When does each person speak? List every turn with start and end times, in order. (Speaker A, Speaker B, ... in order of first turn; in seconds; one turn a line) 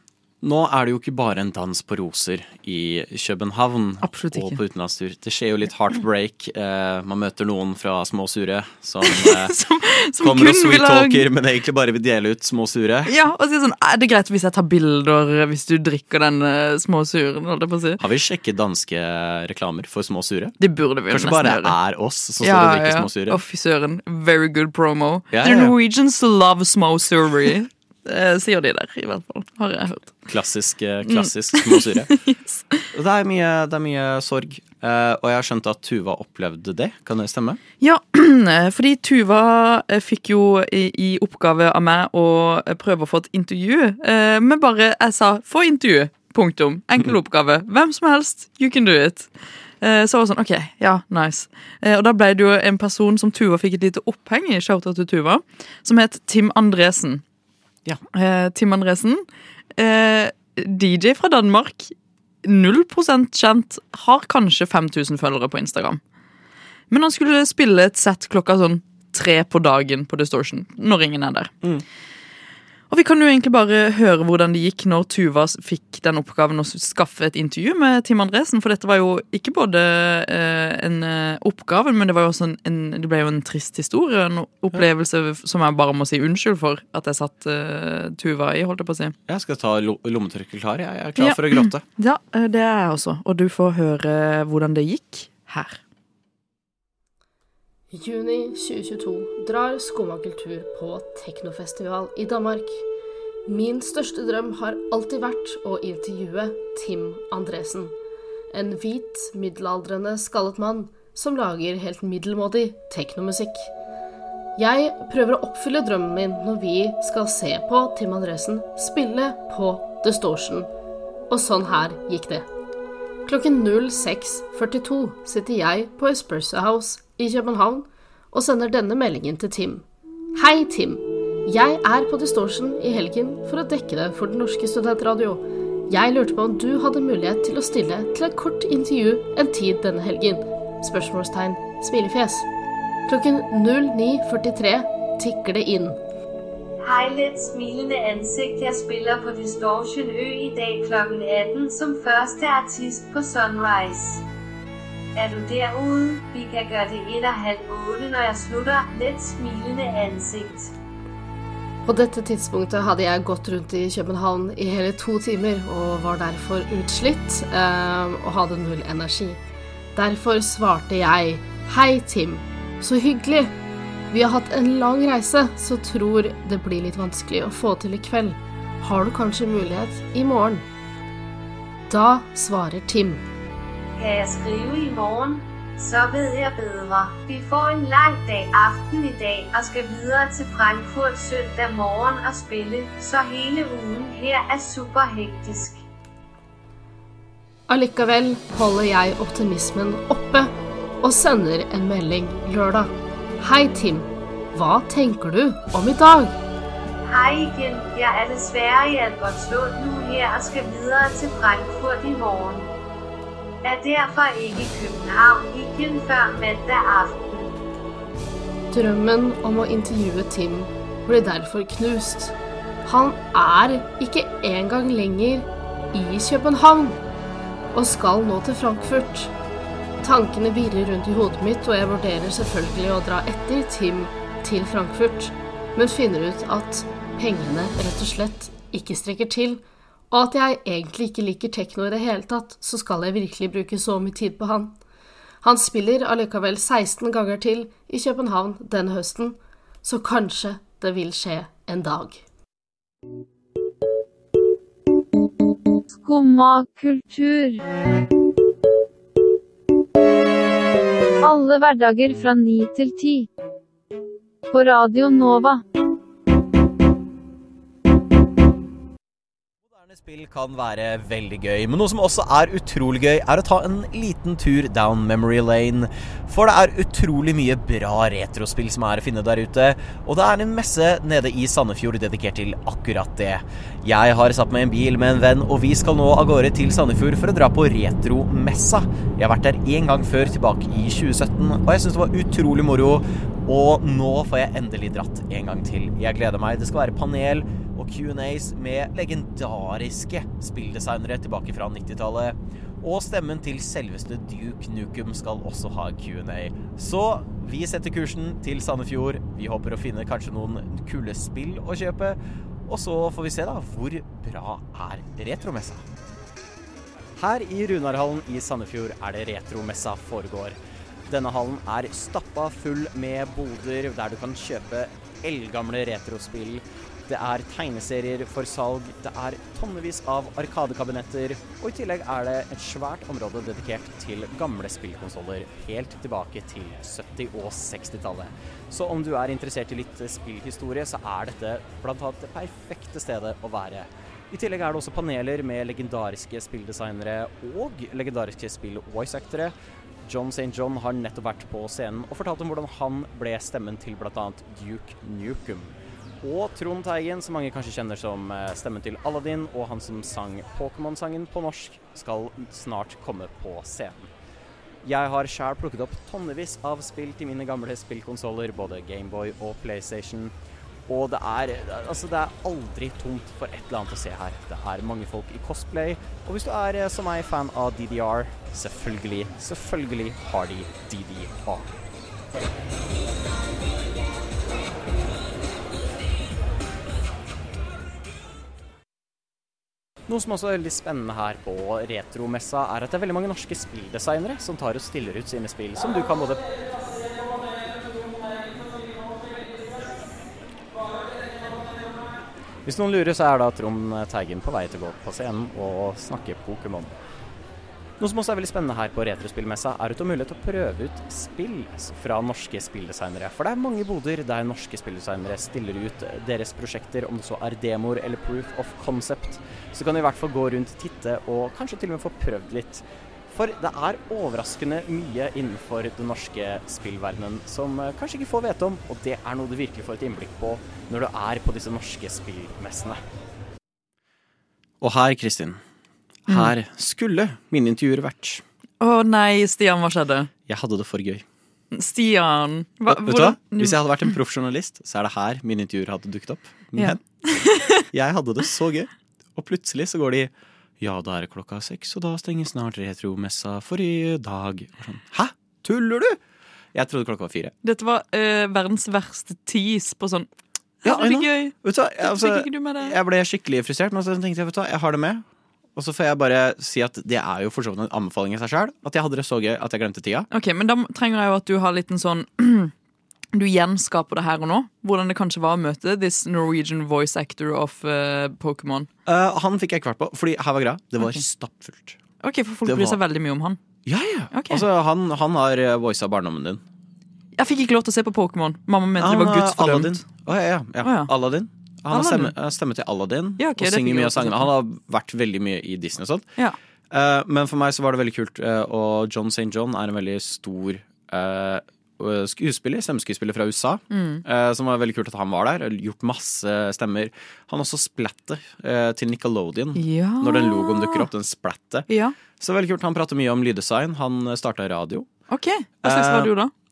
Speaker A: 0.4-9.6
Speaker B: 4.0-4.6
Speaker B: 9.0-11.2
Speaker A: 10.2-13.1
Speaker B: 13.1-18.0
Speaker A: 18.0-20.6
Speaker B: 20.6-21.8
Speaker A: 21.1-23.4
Speaker B: 22.4-30.2
Speaker A: 25.3-25.8
Speaker A: 30.3-32.1
Speaker B: 31.1-32.8
Speaker A: 32.9-37.6
Speaker B: 37.8-57.2
Speaker B: 58.1-59.2
Speaker B: 59.8-66.0
Speaker B: 66.9-71.5
Speaker B: 72.9-89.2
Speaker A: 89.3-91.8
Speaker B: 91.2-95.8
Speaker C: 97.9-102.8
Speaker C: 103.5-108.0
Speaker C: 108.5-113.7
Speaker C: 114.6-120.7
Speaker C: 121.3-122.5
Speaker C: 123.3-142.5
Speaker C: 143.1-146.0
Speaker D: 146.8-154.2
Speaker D: 155.2-160.7
Speaker C: 161.8-169.4
Speaker C: 169.9-173.5
Speaker C: 174.1-180.7
Speaker C: 181.9-183.2
Speaker D: 184.0-195.8
Speaker C: 197.7-206.4
Speaker D: 207.1-212.7
Speaker D: 213.6-217.6
Speaker C: 218.7-227.0
Speaker C: 227.7-229.3
Speaker C: 230.0-244.8
Speaker C: 245.4-252.2
Speaker E: 255.9-257.6
Speaker E: 261.2-263.3
Speaker E: 264.5-265.6
Speaker A: 269.7-315.9
Speaker A: 317.2-320.6
Speaker A: 321.1-349.5
Speaker A: 350.1-364.1
Speaker A: 364.8-370.3
Speaker A: 370.9-381.8
Speaker A: 390.1-396.6
Speaker A: 402.6-407.0
Speaker A: 408.0-433.0
Speaker A: 434.8-435.6
Speaker A: 436.3-438.4
Speaker B: 438.8-440.3
Speaker A: 440.5-441.2
Speaker B: 441.7-443.8
Speaker A: 442.9-447.0
Speaker B: 446.8-447.8
Speaker A: 447.9-456.2
Speaker A: 456.7-457.5
Speaker B: 457.6-460.3
Speaker B: 460.8-463.0
Speaker A: 460.8-465.2
Speaker A: 465.8-470.3
Speaker B: 470.3-472.7
Speaker B: 473.3-478.9
Speaker A: 479.1-482.0
Speaker B: 482.2-483.6
Speaker A: 482.6-483.0
Speaker A: 483.9-486.6
Speaker B: 484.3-484.7
Speaker B: 487.4-490.0
Speaker A: 489.0-496.3
Speaker B: 490.8-491.1
Speaker B: 491.9-492.3
Speaker B: 493.4-494.5
Speaker A: 496.9-515.1
Speaker B: 503.9-504.2
Speaker B: 509.8-511.1
Speaker B: 511.9-512.2
Speaker B: 515.3-516.5
Speaker A: 515.8-516.3